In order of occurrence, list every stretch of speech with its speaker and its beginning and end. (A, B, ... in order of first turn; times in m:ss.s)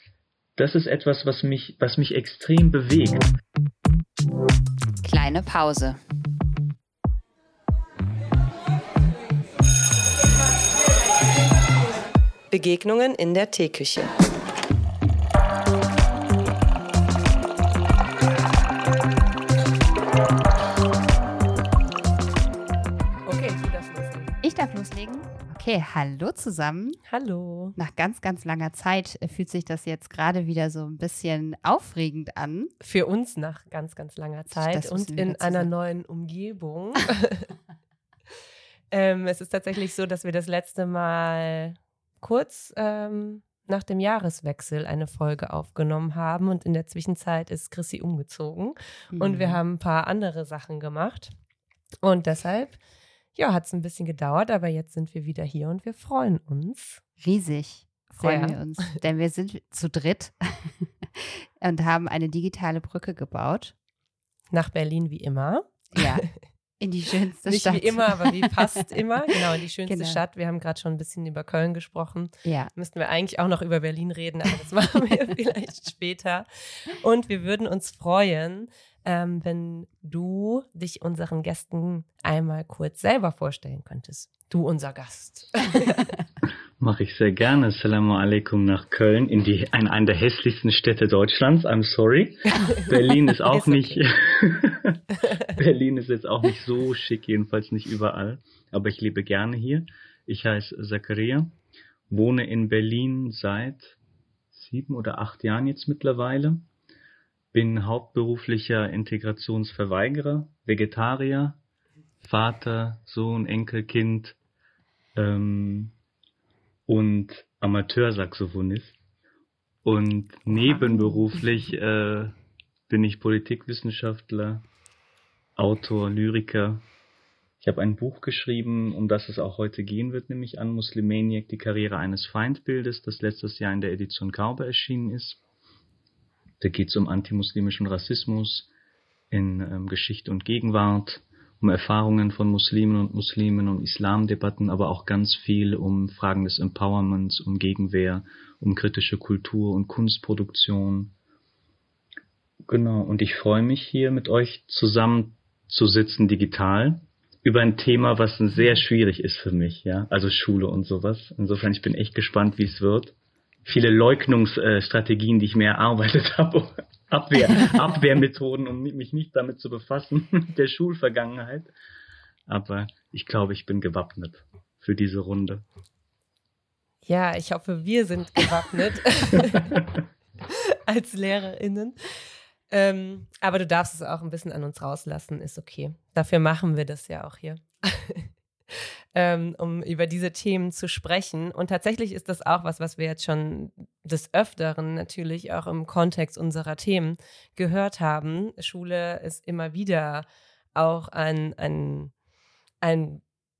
0:00.6-0:03.3 A
0:05.0-0:06.0 B
0:12.5-0:14.2 C
0:23.2-0:24.4 C
0:24.4-0:27.0 B
0:27.1-0:27.8 C
0:27.8-0:32.7 B
0:32.8-0:37.5 C
0:34.5-0:35.7 B
0:38.9-0:51.3 C
0:49.1-0:49.6 B
0:52.0-0:52.8 C
0:53.4-0:57.0 C
0:57.2-1:03.7 B
0:58.2-0:59.0 C
1:04.5-1:06.3 C
1:05.9-1:06.2 B
1:06.8-1:08.8 B
1:07.4-1:26.0 C
1:09.9-1:10.2 B
1:12.4-1:12.7 B
1:26.8-1:41.5 A
1:32.6-1:34.0 C
1:42.1-1:44.0 A
1:44.5-1:46.6 A
1:47.5-1:51.6 A
1:52.2-1:54.4 A
1:55.2-1:55.9 A
1:56.9-1:59.0 A
1:59.8-2:02.4 A
2:02.9-2:04.6 A
2:05.6-2:06.8 A
2:07.6-2:15.4 A
2:16.6-2:18.7 A
2:19.3-2:31.1 A
2:32.7-2:51.7 A
2:52.5-2:55.6 A
2:57.0-2:59.8 C
3:00.5-3:02.0 C
3:02.7-3:22.1 C
3:22.8-3:23.2 C